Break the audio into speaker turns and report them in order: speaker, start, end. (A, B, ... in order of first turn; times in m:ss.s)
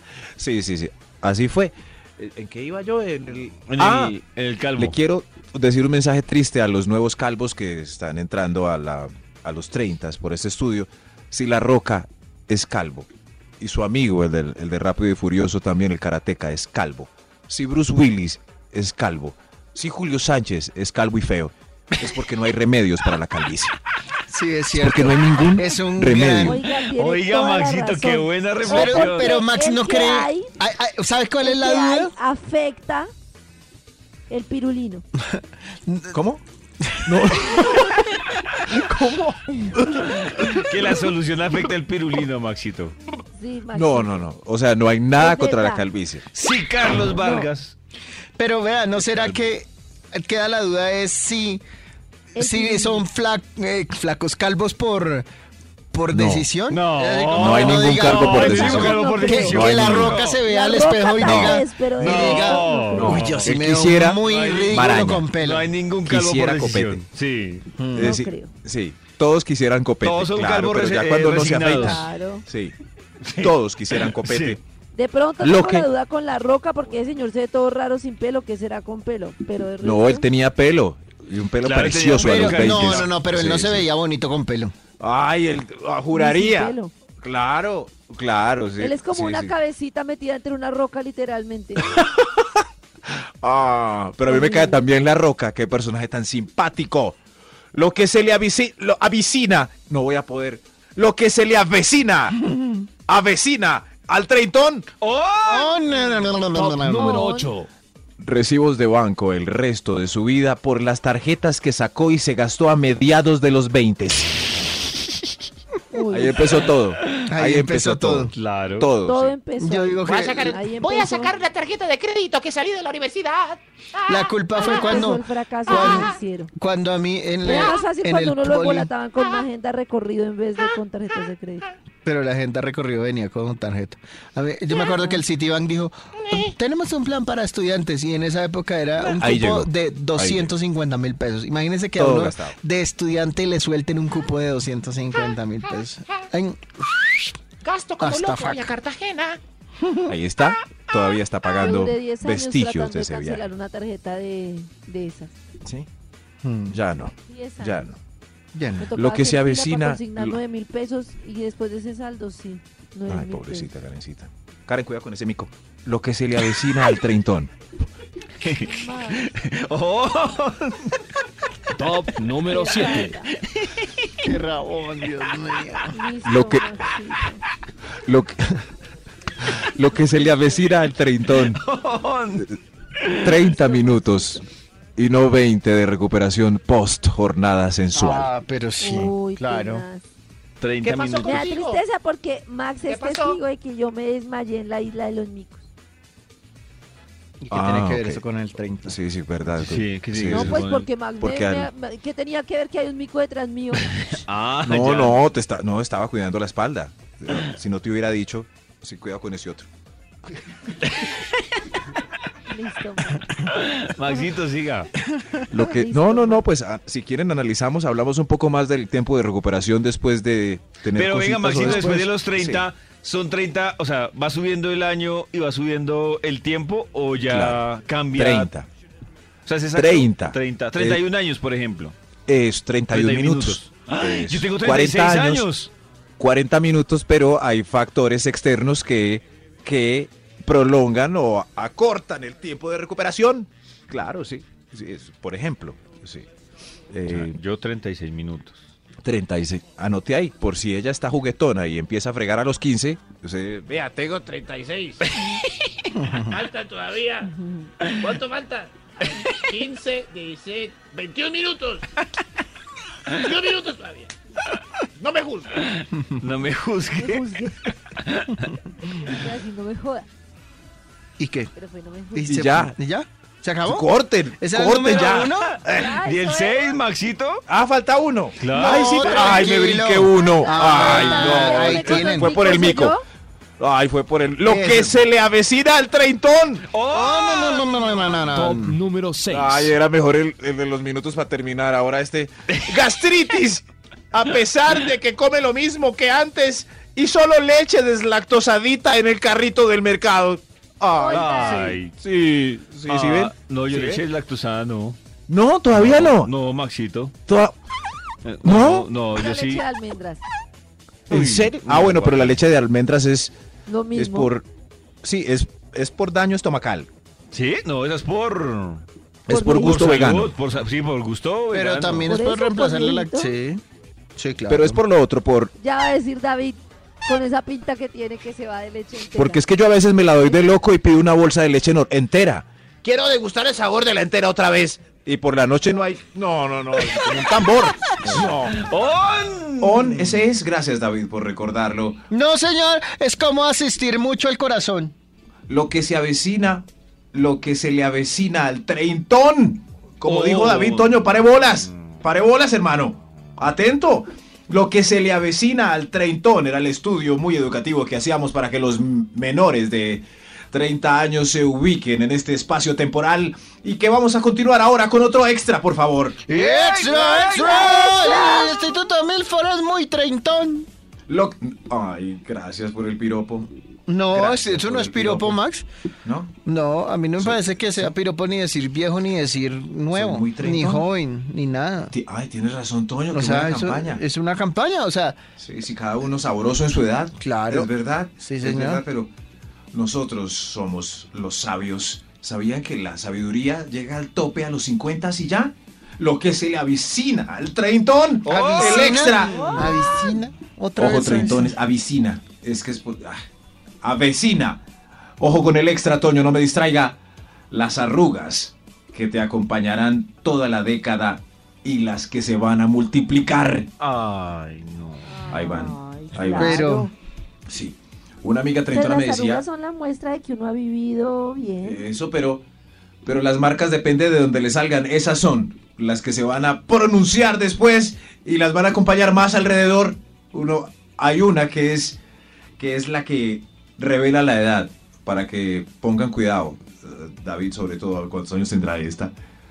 0:00.4-0:04.2 A
0:03.7-0:05.0 B
0:04.8-0:13.1 A
0:13.6-0:23.7 A
0:24.3-0:26.6 C
0:24.7-0:26.6 A
0:26.4-0:30.5 D
0:26.8-0:29.3 B
0:28.6-0:32.1 C
0:31.4-0:33.1 D
0:34.3-0:35.0 D
0:35.9-0:36.2 C
0:36.1-0:36.4 A
0:36.9-0:37.3 C
0:37.1-0:38.1 A
0:38.7-0:39.3 A
0:40.4-0:43.0 B
0:43.3-0:44.2 D
0:43.7-0:46.3 A
0:45.2-0:45.8 D
0:46.3-0:47.8 B
0:48.4-0:51.6 C
0:49.0-0:49.4 A
0:52.4-0:53.0 D
0:52.4-0:55.3 C
0:55.9-1:05.7 C
0:56.1-0:56.5 A
0:56.7-1:00.4 B
0:57.4-1:00.2 A
0:58.3-0:59.6 D
1:00.4-1:03.2 D
1:01.2-1:01.6 A
1:02.0-1:03.6 B
1:03.0-1:05.2 A
1:04.2-1:07.7 B
1:06.0-1:07.0 A
1:07.8-1:08.1 C
1:07.9-1:12.8 A
1:08.0-1:08.5 D
1:10.0-1:12.0 B
1:11.7-1:12.4 D
1:13.3-1:14.6 B
1:13.4-1:14.6 A
1:14.9-1:20.3 D
1:15.4-1:15.9 A
1:19.8-1:23.9 A
1:21.6-1:23.1 B
1:22.2-1:24.7 C
1:25.0-1:29.6 A
1:26.1-1:26.9 D
1:28.8-1:31.9 D
1:31.9-1:32.6 A
1:33.4-1:37.2 A
1:34.3-1:34.8 D
1:37.7-1:42.4 A
1:42.5-1:42.8 C
1:43.1-1:44.9 A
1:45.0-1:45.8 B
1:45.4-1:47.2 C
1:46.5-1:47.7 E
1:47.0-1:47.5 D
1:48.2-1:54.5 A
1:55.9-1:56.7 D
1:56.1-1:59.3 A
1:57.3-1:58.3 C
1:58.3-1:58.9 B
1:59.0-2:01.4 D
1:59.6-2:00.6 C
2:00.0-2:05.1 F
2:04.1-2:08.9 C
2:04.6-2:06.5 D
2:05.7-2:06.1 F
2:07.4-2:11.7 D
2:12.0-2:27.3 C
2:14.9-2:15.2 D
2:19.0-2:20.5 A
2:22.0-2:22.6 A
2:27.6-2:29.4 F
2:28.0-2:28.7 C
2:29.8-2:30.1 C
2:30.1-2:33.4 A
2:31.6-2:35.3 D
2:36.4-2:36.8 C
2:36.7-2:38.0 A
2:37.2-2:37.9 D
2:38.5-2:38.9 C
2:38.8-2:43.7 D
2:38.9-2:40.4 A
2:43.1-2:47.5 A
2:48.4-2:51.0 B
2:48.6-2:49.3 D
2:51.8-2:53.2 E
2:52.5-2:53.3 D
2:53.4-2:54.1 B
2:54.2-2:56.0 C
2:55.9-2:57.4 D
2:56.2-2:56.7 A
2:58.0-2:58.6 A
2:59.6-3:01.6 A
3:01.3-3:03.4 B
3:03.2-3:04.4 A
3:05.0-3:08.3 A
3:07.9-3:09.8 C
3:08.8-3:10.0 D
3:10.6-3:11.5 B
3:10.8-3:11.8 F
3:11.2-3:15.6 D
3:12.8-3:13.4 F
3:17.4-3:19.0 C
3:17.5-3:18.2 A
3:18.8-3:20.6 A
3:19.6-3:20.9 B
3:20.3-3:23.8 D
3:21.2-3:21.7 A
3:24.1-3:25.2 B
3:24.6-3:29.7 A
3:30.9-3:31.2 B
3:32.5-3:33.4 D
3:33.5-3:34.9 B
3:35.1-3:35.4 C
3:35.5-3:42.6 A
3:35.7-3:36.4 D
3:40.9-3:48.5 B
3:47.2-3:47.6 A
3:48.1-3:48.7 A
3:49.5-3:52.0 B
3:49.7-3:51.0 A
3:52.3-3:55.5 A
3:52.9-3:55.7 B
3:56.2-4:06.3 A
4:06.9-4:07.4 A
4:07.1-4:08.6 B
4:09.0-4:13.7 A
4:13.7-4:15.1 F
4:15.9-4:16.4 C
4:16.3-4:17.3 F
4:17.2-4:17.7 D
4:17.8-4:21.9 F
4:23.1-4:24.1 F
4:25.0-4:25.5 F
4:25.7-4:28.5 B
4:27.0-4:27.6 D
4:28.9-4:30.1 D
4:31.2-4:31.5 C
4:31.5-4:32.4 D
4:32.1-4:35.5 C
4:32.3-4:32.7 A
4:33.7-4:36.0 A
4:35.0-4:37.4 B
4:35.7-4:36.7 D
4:37.5-4:43.0 A
4:38.4-4:39.4 B
4:38.6-4:42.5 C
4:39.2-4:39.5 D
4:40.1-4:43.0 D
4:43.6-4:46.6 A
4:44.5-4:45.0 C
4:46.7-4:47.7 B
4:46.9-4:48.8 C
4:48.2-4:49.7 E
4:49.3-5:04.0 A
5:00.9-5:01.8 D
5:01.1-5:01.9 B
5:02.9-5:05.0 B
5:05.3-5:06.3 A
5:05.7-5:07.2 B
5:07.3-5:07.5 A
5:08.2-5:09.6 B
5:08.4-5:08.9 A
5:09.2-5:10.2 D
5:11.1-5:12.4 B
5:11.1-5:13.3 A
5:13.7-5:14.3 D
5:13.9-5:14.5 A
5:15.0-5:16.9 A
5:17.3-5:18.8 B
5:19.3-5:20.4 A
5:19.3-5:20.0 D
5:19.6-5:22.1 B
5:21.5-5:23.6 C
5:22.0-5:23.3 D
5:24.2-5:24.8 C
5:24.5-5:25.5 A
5:25.6-5:29.4 D
5:29.2-5:32.5 A
5:30.2-5:30.6 D
5:32.8-5:34.9 F
5:34.8-5:38.7 A
5:36.9-5:37.5 B
5:38.0-5:40.3 B
5:39.6-5:42.0 A
5:42.1-5:44.9 C
5:45.5-6:06.2 A
5:50.0-5:51.7 B
6:06.3-6:10.7 C
6:06.3-6:08.4 B
6:07.9-6:08.5 D
6:11.1-6:13.5 A
6:13.9-6:15.7 C
6:14.1-6:15.4 A
6:16.0-6:16.3 A
6:16.4-6:22.0 C
6:17.2-6:17.9 A
6:19.9-6:20.8 A
6:21.9-6:24.0 A
6:23.1-6:25.2 C
6:25.4-6:29.1 A
6:27.2-6:28.8 C
6:29.7-6:39.7 A
6:38.2-6:39.0 B
6:38.3-6:41.6 C
6:39.2-6:40.2 D
6:40.8-6:43.2 A
6:43.8-6:44.6 A
6:45.2-6:47.0 A
6:47.5-6:53.7 A
6:53.8-6:55.6 B
6:55.1-6:56.9 D
6:55.3-6:56.6 A
6:56.4-6:56.9 C
6:57.5-6:59.4 A
6:58.7-7:01.8 D
7:01.6-7:02.4 A
7:03.0-7:12.0 A
7:12.6-7:19.1 A